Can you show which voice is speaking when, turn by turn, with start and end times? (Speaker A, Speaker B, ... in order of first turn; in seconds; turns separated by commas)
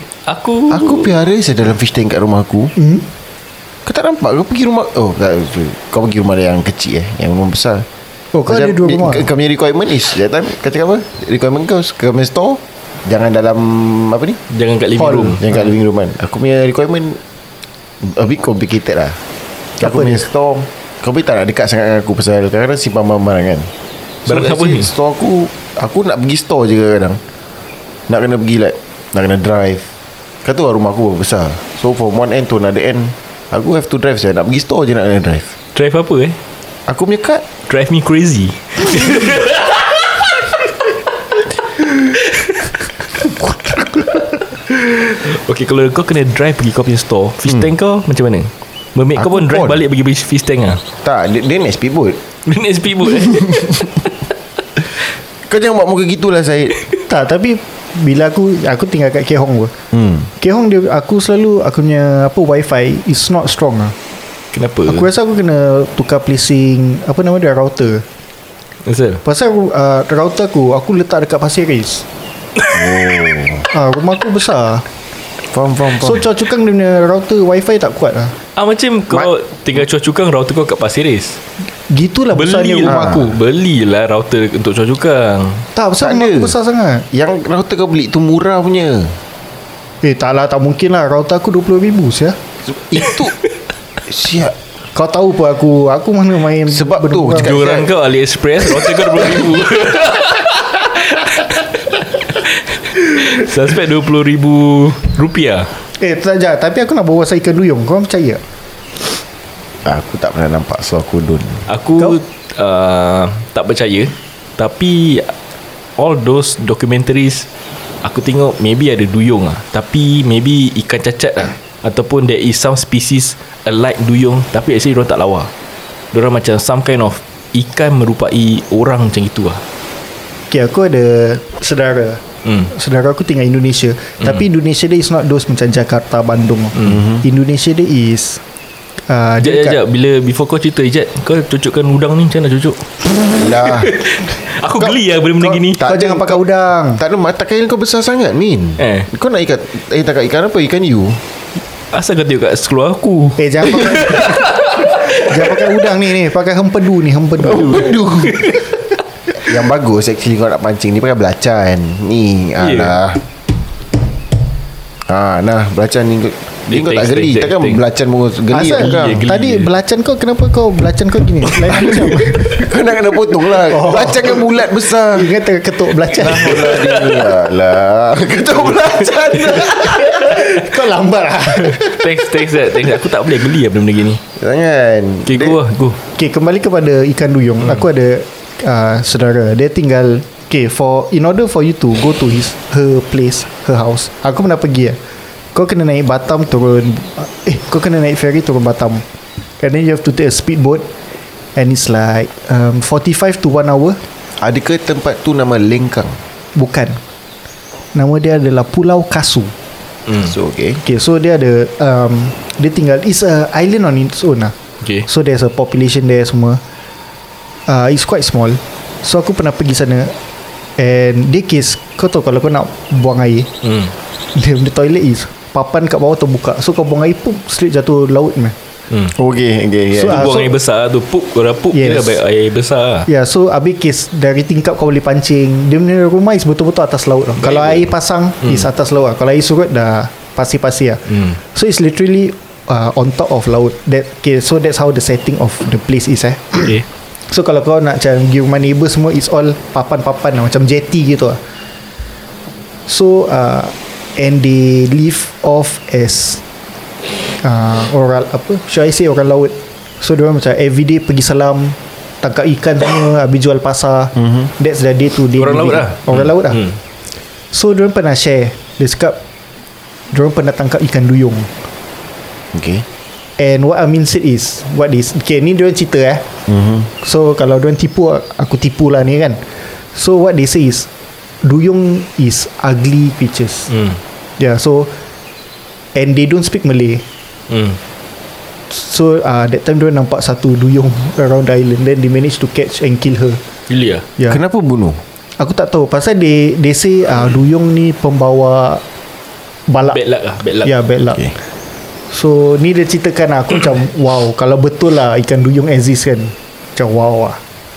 Speaker A: 0.3-1.1, Speaker B: 0.7-2.7, Speaker C: 2.8-3.1, Speaker B: 3.9-7.9, Speaker C: 8.3-9.3, Speaker B: 8.5-14.4, Speaker A: 14.5-15.4, Speaker C: 15.0-15.6, Speaker B: 15.4-17.2, Speaker B: 18.0-19.2, Speaker B: 19.8-23.7, Speaker C: 19.8-20.2, Speaker A: 24.3-24.9, Speaker B: 24.3-27.2, Speaker B: 28.1-29.9, Speaker B: 30.4-35.5, Speaker A: 35.7-36.4, Speaker B: 36.9-37.4, Speaker A: 37.7-40.0, Speaker A: 42.2-42.7, Speaker A: 44.9-50.8, Speaker B: 49.2-49.8, Speaker B: 51.0-52.2, Speaker A: 52.5-54.1, Speaker B: 55.5-56.8, Speaker C: 57.1-59.7, Speaker B: 59.9-60.3, Speaker C: 60.4-64.0, Speaker A: 64.5-65.1, Speaker C: 64.9-68.0, Speaker A: 68.8-69.2, Speaker C: 69.2-72.0, Speaker B: 72.7-73.7, Speaker C: 73.7-74.8, Speaker B: 75.5-76.3, Speaker C: 76.0-78.4, Speaker A: 78.6-81.4, Speaker C: 81.9-83.3, Speaker A: 82.3-85.7, Speaker B: 82.9-83.2, Speaker C: 85.8-87.1, Speaker B: 86.0-86.6, Speaker B: 87.1-89.2, Speaker C: 90.0-92.4, Speaker B: 92.6-93.3, Speaker B: 94.1-94.5, Speaker C: 94.9-97.5, Speaker B: 96.7-97.9, Speaker A: 97.4-105.7, Speaker C: 106.0-108.4, Speaker B: 109.8-111.7, Speaker A: 111.7-115.3, Speaker A: 116.0-117.5, Speaker A: 118.0-125.5, Speaker A: 126.1-129.6, Speaker C: 130.5-138.4, Speaker B: 136.8-137.2, Speaker C: 139.1-139.8, Speaker A: 139.4-145.8, Speaker B: 143.3-143.9, Speaker B: 144.8-151.2, Speaker C: 145.8-147.0, Speaker A: 148.8-149.1, Speaker A: 151.9-154.9, Speaker C: 153.4-157.9, Speaker B: 157.4-158.6, Speaker A: 157.6-158.6, Speaker B: 159.4-163.2, Speaker A: 162.6-163.0, Speaker B: 165.1-169.3, Speaker A: 166.7-167.8, Speaker C: 168.5-172.6, Speaker A: 168.7-169.7, Speaker B: 171.7-175.3, Speaker C: 173.7-174.5, Speaker C: 175.1-176.8, Speaker B: 176.1-180.3, Speaker A: 176.3-177.0, Speaker C: 180.1-182.1, Speaker A: 181.6-184.2, Speaker B: 184.4-185.6, Speaker A: 185.3-186.0, Speaker C: 186.2-195.0, Speaker C: 195.5-199.0, Speaker C: 199.6-200.9, Speaker C: 201.6-204.0, Speaker B: 204.4-206.2, Speaker C: 206.6-207.0, Speaker C: 207.9-209.5, Speaker B: 210.2-210.8, Speaker C: 210.8-216.6, Speaker C: 217.7-220.2, Speaker C: 220.8-223.5, Speaker A: 223.6-223.9, Speaker C: 224.3-228.6, Speaker B: 229.1-230.4, Speaker C: 229.9-230.5, Speaker A: 230.0-233.1, Speaker C: 231.7-232.2, Speaker C: 233.1-251.4, Speaker A: 237.4-237.9, Speaker C: 252.9-256.4, Speaker C: 257.4-266.7, Speaker A: 265.4-266.8, Speaker C: 267.5-269.2, Speaker C: 270.1-271.5, Speaker B: 272.5-272.9, Speaker C: 273.4-276.3, Speaker B: 276.5-276.9, Speaker C: 277.0-280.9, Speaker C: 281.4-283.7, Speaker A: 283.7-284.0, Speaker C: 284.4-284.9, Speaker C: 285.9-287.0, Speaker A: 287.5-287.8, Speaker C: 288.7-293.4, Speaker A: 293.7-294.1, Speaker B: 294.3-295.0, Speaker C: 295.4-298.8, Speaker C: 299.7-300.0, Speaker A: 299.9-300.7, Speaker C: 300.6-301.3, Speaker C: 302.1-307.4